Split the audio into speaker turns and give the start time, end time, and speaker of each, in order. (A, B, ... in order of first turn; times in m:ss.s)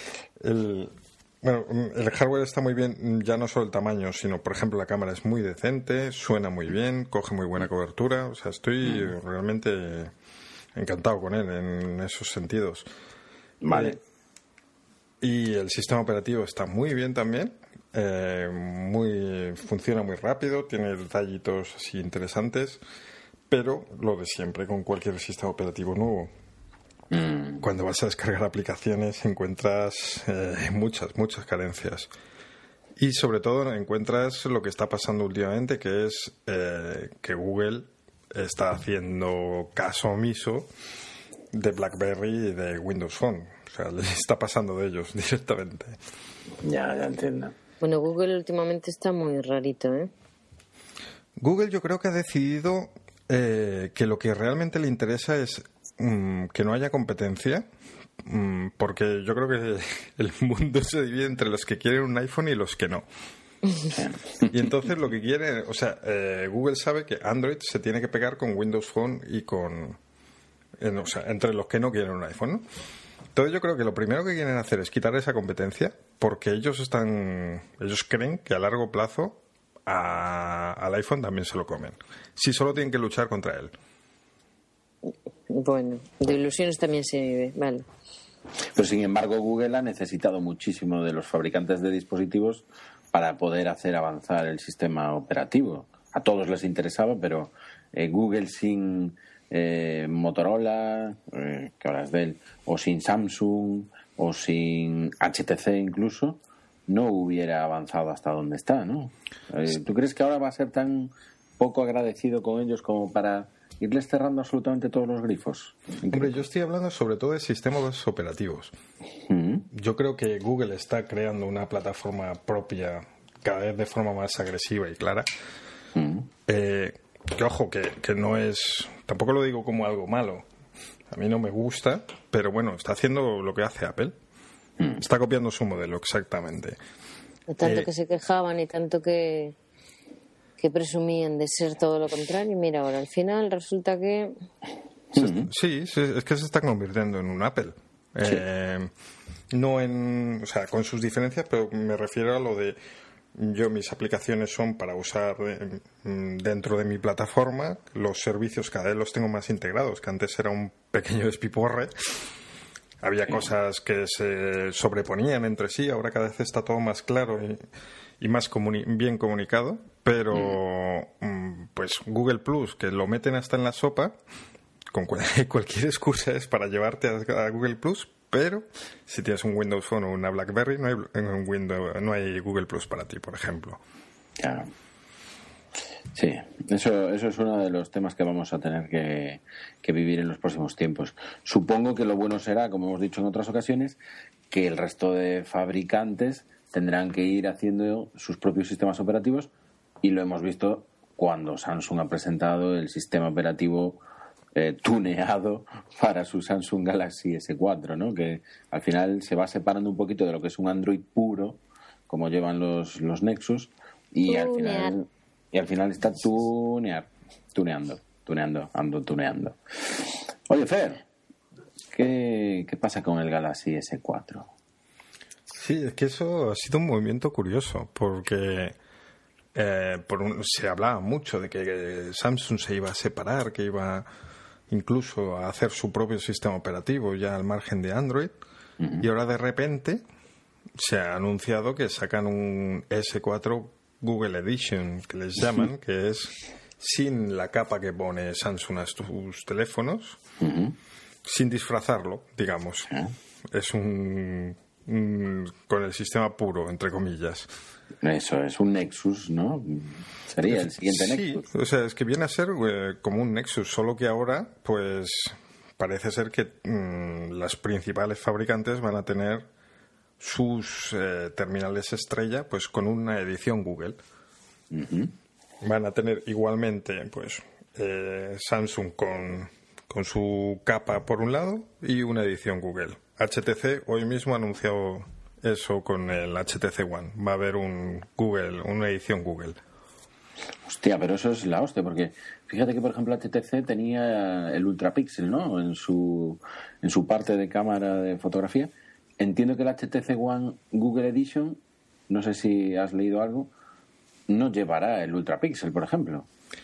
0:00.4-0:10.1 A
0:08.8-0:09.1 B
0:10.8-0:12.9 A
0:13.6-0:14.0 B
0:13.7-0:14.0 A
0:15.2-0:22.8 A
0:23.5-0:26.3 A
0:27.1-0:27.6 B
0:27.6-0:32.1 A
0:33.0-0:40.7 A
0:41.5-0:46.0 A
0:46.6-0:47.5 B
0:47.8-0:50.1 C
0:51.4-0:57.7 A
0:58.2-1:03.0 A
1:03.9-1:04.8 B
1:04.5-1:10.0 A
1:10.8-1:12.6 A
1:13.3-1:23.7 A
1:25.5-1:27.9 C
1:28.8-1:56.4 B
1:56.1-1:58.7 A
1:59.3-1:59.7 B
1:59.7-2:05.3 A
2:06.0-2:06.3 B
2:06.5-2:10.5 A
2:11.1-2:14.2 A
2:15.0-2:16.8 A
2:17.5-2:19.6 C
2:17.6-2:17.9 A
2:20.6-2:24.4 C
2:25.1-2:25.5 B
2:25.2-2:28.9 A
2:29.5-2:32.8 A
2:33.4-2:42.3 A
2:43.0-2:47.6 A
2:48.2-2:54.2 A
2:50.3-2:50.6 B
2:54.9-3:03.8 A
3:04.4-3:04.7 B
3:06.2-3:14.0 B
3:14.5-3:24.0 B
3:24.5-3:41.0 B
3:34.3-3:35.0 C
3:41.9-3:44.5 B
3:45.5-3:48.8 A
3:49.5-3:54.1 A
3:54.7-3:58.3 A
3:58.8-3:59.1 B
3:59.0-4:00.0 A
4:00.8-4:10.2 A
4:10.4-4:10.8 B
4:11.2-4:12.9 A
4:13.5-4:17.5 A
4:18.0-4:21.4 B
4:20.5-4:29.5 A
4:30.2-4:34.0 A
4:34.7-4:35.1 B
4:35.6-4:49.6 A
4:50.7-5:03.5 B
5:04.3-5:06.3 B